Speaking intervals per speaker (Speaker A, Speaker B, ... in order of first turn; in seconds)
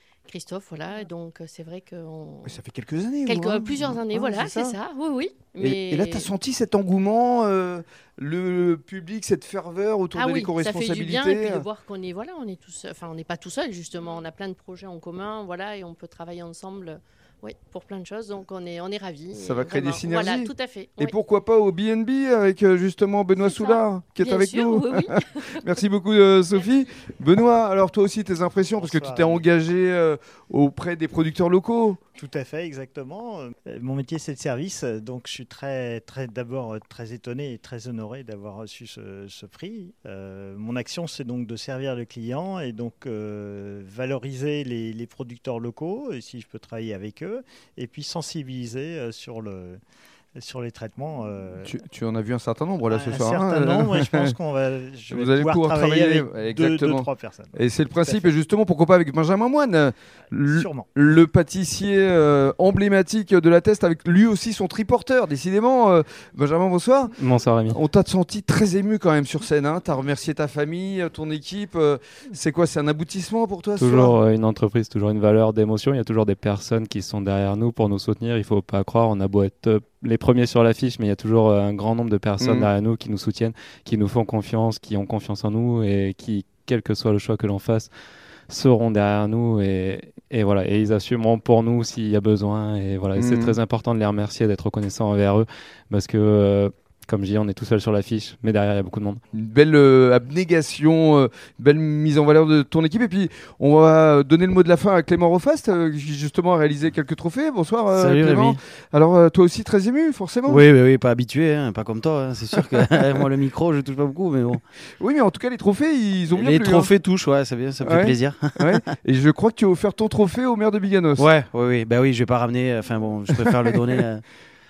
Speaker A: 0.2-2.5, 3.3-6.3, 10.1-21.1, 23.4-25.6
Speaker B: 2.4-4.8, 5.6-11.7, 19.3-32.0, 51.6-54.3, 55.1-67.1, 67.7-74.2, 82.4-82.7, 93.2-93.6, 99.3-110.6, 115.0-116.9, 117.8-121.3, 123.3-123.7
Speaker C: 28.8-29.4, 32.2-49.8, 50.4-51.7, 52.9-58.3, 60.5-60.9
Speaker D: 67.2-67.8, 73.8-87.9, 88.5-99.2
Speaker E: 107.9-108.6, 110.5-114.6, 116.3-118.9, 121.2-124.2